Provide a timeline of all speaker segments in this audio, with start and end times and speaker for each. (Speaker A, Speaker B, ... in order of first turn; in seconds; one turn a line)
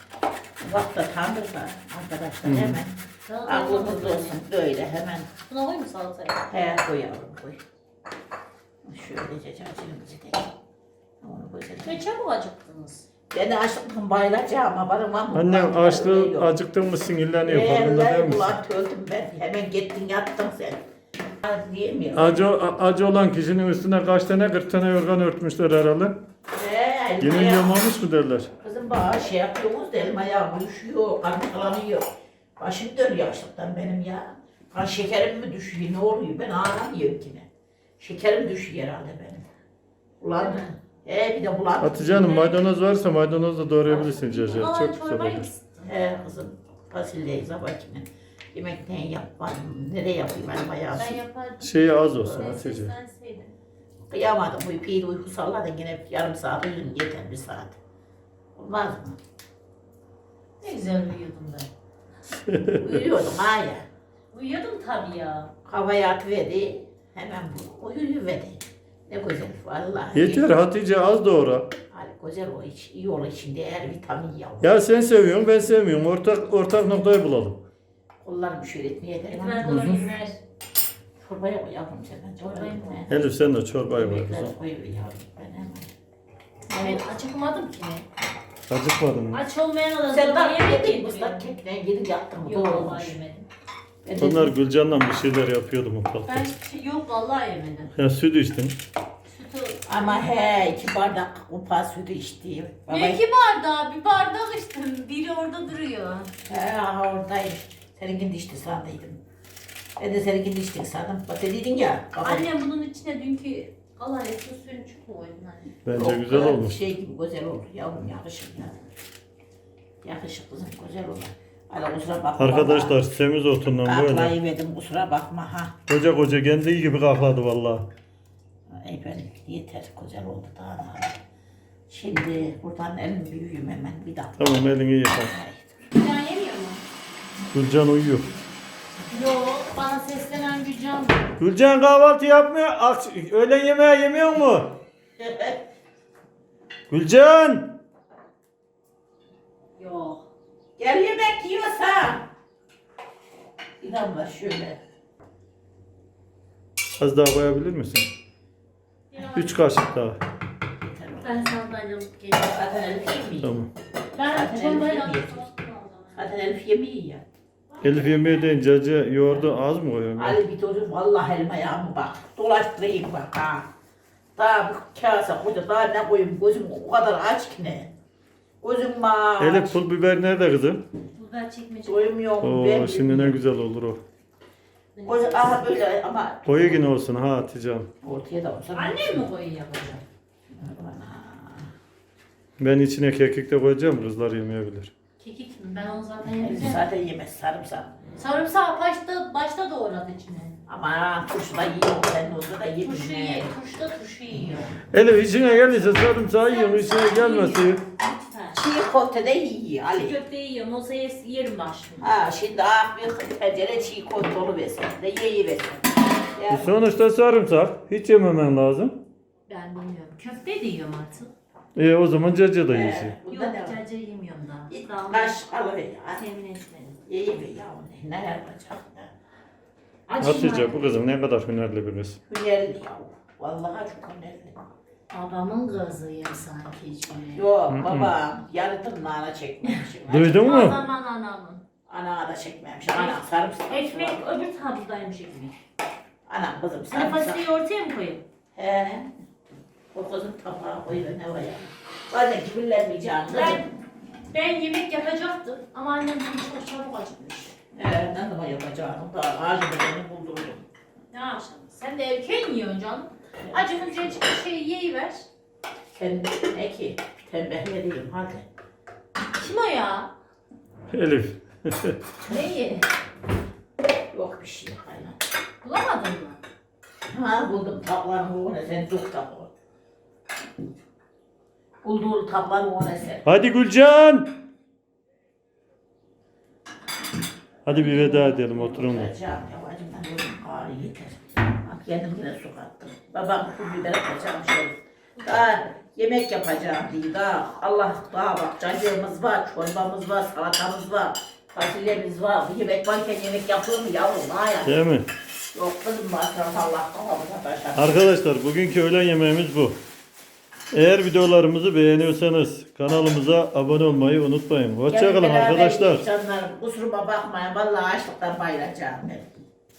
Speaker A: 0.6-5.3
Speaker B: 2.4-2.8
Speaker C: 3.3-4.4
Speaker C: 5.5-6.4
Speaker A: 6.5-7.6
Speaker A: 8.8-10.5
Speaker A: 11.2-12.0
Speaker C: 11.8-13.1
Speaker A: 13.3-16.5
Speaker B: 15.3-18.6
Speaker A: 17.4-20.8
Speaker A: 21.4-22.5
Speaker B: 22.1-26.2
Speaker A: 26.5-27.7
Speaker B: 27.2-28.5
Speaker A: 28.6-37.5
Speaker A: 38.0-39.5
Speaker A: 40.2-42.6
Speaker C: 40.3-40.7
Speaker B: 41.8-45.5
Speaker C: 43.9-45.9
Speaker A: 45.9-51.2
Speaker C: 50.9-53.5
Speaker B: 51.6-52.9
Speaker A: 54.1-57.8
Speaker A: 58.5-59.2
Speaker C: 60.6-61.7
Speaker B: 62.5-63.0
Speaker A: 62.8-63.9
Speaker C: 64.3-65.5
Speaker A: 65.6-70.5
Speaker B: 70.1-71.7
Speaker A: 71.9-74.8
Speaker B: 74.6-77.6
Speaker A: 78.2-79.9
Speaker C: 79.3-80.4
Speaker B: 79.6-80.1
Speaker A: 81.2-83.2
Speaker C: 82.4-83.1
Speaker B: 83.1-84.5
Speaker A: 83.9-85.9
Speaker C: 86.7-88.0
Speaker A: 86.8-87.0
Speaker B: 88.7-89.4
Speaker C: 89.3-91.4
Speaker A: 90.1-93.2
Speaker C: 92.4-93.5
Speaker A: 94.0-94.6
Speaker B: 94.2-96.5
Speaker C: 96.2-97.9
Speaker B: 97.9-98.8
Speaker C: 99.2-101.0
Speaker A: 99.9-103.2
Speaker C: 102.9-106.3
Speaker A: 106.5-109.2
Speaker A: 110.0-112.5
Speaker C: 112.2-115.7
Speaker B: 115.8-116.8
Speaker A: 115.9-118.7
Speaker A: 120.0-123.0
Speaker B: 122.4-124.3
Speaker A: 123.8-125.7
Speaker B: 125.9-127.9
Speaker A: 128.7-131.2
Speaker A: 131.9-134.6
Speaker B: 134.4-135.4
Speaker A: 135.3-135.8
Speaker C: 135.9-136.8
Speaker B: 137.5-138.3
Speaker C: 139.1-141.2
Speaker B: 141.4-144.8
Speaker A: 145.2-145.6
Speaker B: 146.9-147.8
Speaker C: 149.8-150.2
Speaker A: 150.8-152.3
Speaker A: 153.8-154.8
Speaker B: 157.0-158.1
Speaker C: 159.1-159.8
Speaker B: 159.2-160.2
Speaker A: 160.8-161.6
Speaker C: 161.2-163.1
Speaker A: 162.4-163.6
Speaker B: 163.4-163.7
Speaker C: 164.1-166.2
Speaker A: 164.2-165.5
Speaker A: 166.1-167.2
Speaker B: 167.8-170.4
Speaker A: 170.2-173.7
Speaker A: 174.3-177.9
Speaker A: 178.6-179.8
Speaker B: 179.4-180.8
Speaker C: 181.2-182.1
Speaker A: 181.8-183.4
Speaker B: 182.4-184.0
Speaker C: 184.9-185.7
Speaker A: 185.0-186.9
Speaker B: 186.4-187.9
Speaker A: 188.0-189.2
Speaker C: 188.7-190.0
Speaker A: 190.5-191.7
Speaker B: 192.6-194.9
Speaker C: 195.2-196.8
Speaker A: 196.4-198.0
Speaker C: 198.2-200.6
Speaker A: 200.7-203.5
Speaker C: 202.8-204.8
Speaker B: 204.9-207.8
Speaker C: 206.4-208.6
Speaker A: 208.5-210.2
Speaker C: 209.9-212.1
Speaker A: 212.0-216.9
Speaker B: 216.5-219.0
Speaker C: 219.5-221.3
Speaker B: 221.8-223.2
Speaker A: 222.7-223.8
Speaker C: 223.3-225.4
Speaker A: 224.7-226.2
Speaker C: 226.2-227.0
Speaker A: 227.1-229.1
Speaker C: 230.1-230.8
Speaker B: 230.2-232.2
Speaker A: 232.3-234.6
Speaker C: 235.1-237.5
Speaker A: 237.3-240.6
Speaker B: 237.7-238.1
Speaker B: 240.1-240.8
Speaker C: 240.4-241.6
Speaker A: 241.9-244.2
Speaker C: 242.9-245.6
Speaker A: 246.3-247.4
Speaker C: 246.9-248.2
Speaker A: 248.5-249.1
Speaker A: 249.9-253.6
Speaker C: 253.3-253.6
Speaker C: 254.3-257.5
Speaker A: 257.7-260.6
Speaker C: 261.1-265.3
Speaker A: 263.4-264.2
Speaker A: 265.9-268.4
Speaker C: 269.4-270.1
Speaker B: 270.9-272.0
Speaker C: 272.2-272.9
Speaker A: 274.1-275.2
Speaker C: 275.6-276.4
Speaker A: 277.1-279.5
Speaker A: 281.8-283.3
Speaker B: 283.2-284.4
Speaker B: 287.6-289.1
Speaker A: 288.2-304.7
Speaker B: 304.6-305.1
Speaker A: 305.5-308.0
Speaker B: 307.7-309.8
Speaker B: 310.7-316.0
Speaker A: 314.9-319.3